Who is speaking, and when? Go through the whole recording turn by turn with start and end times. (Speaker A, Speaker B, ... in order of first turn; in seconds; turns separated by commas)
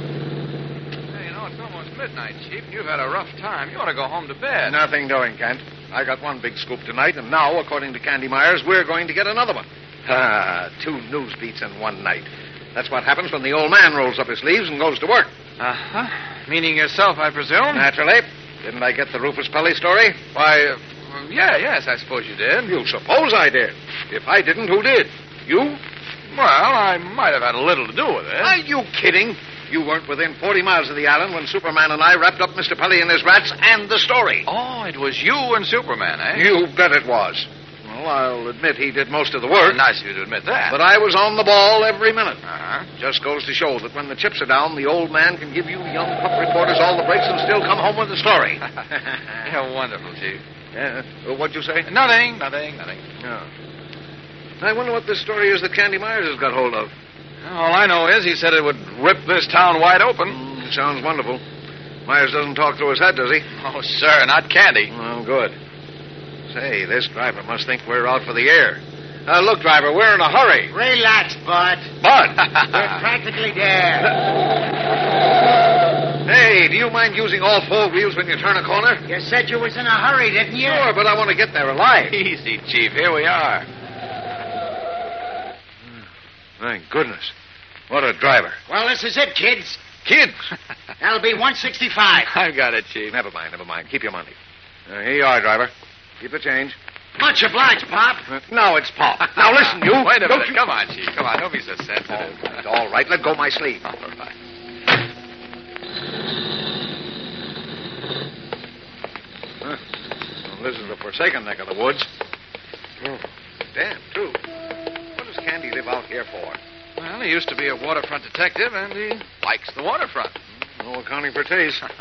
Speaker A: 1.1-4.8, Speaker B: 4.6-15.3, Speaker A: 15.6-17.9, Speaker B: 17.7-20.2, Speaker A: 20.3-22.8, Speaker B: 22.7-25.8, Speaker A: 26.3-28.6, Speaker B: 28.4-34.5, Speaker A: 34.5-36.5, Speaker B: 36.3-39.8, Speaker A: 39.6-40.8, Speaker B: 40.7-42.4, Speaker A: 42.5-42.9, Speaker B: 43.0-49.2, Speaker A: 49.4-50.4, Speaker B: 50.7-51.9, Speaker A: 51.9-53.0, Speaker B: 53.2-53.5, Speaker B: 54.6-56.9, Speaker A: 57.4-60.4, Speaker B: 60.3-61.4, Speaker B: 62.1-63.5, Speaker A: 63.6-64.9, Speaker B: 64.9-65.6, Speaker B: 66.5-70.7, Speaker C: 70.7-71.9, Speaker B: 72.0-72.5, Speaker A: 72.4-72.9, Speaker C: 72.6-74.1, Speaker B: 76.2-79.0, Speaker C: 79.1-80.9, Speaker B: 80.6-82.2, Speaker A: 82.0-83.7, Speaker B: 86.6-87.3, Speaker B: 87.9-88.6, Speaker C: 88.7-89.9, Speaker A: 90.0-90.5, Speaker C: 91.0-92.3, Speaker A: 92.2-93.2, Speaker B: 93.1-94.4, Speaker B: 94.9-96.8, Speaker C: 97.2-98.3, Speaker B: 98.3-100.6, Speaker A: 99.3-102.6, Speaker B: 102.1-103.8, Speaker A: 103.8-104.3, Speaker B: 110.5-112.1, Speaker B: 113.7-114.4, Speaker B: 115.2-116.6, Speaker A: 117.0-120.4, Speaker B: 120.8-121.8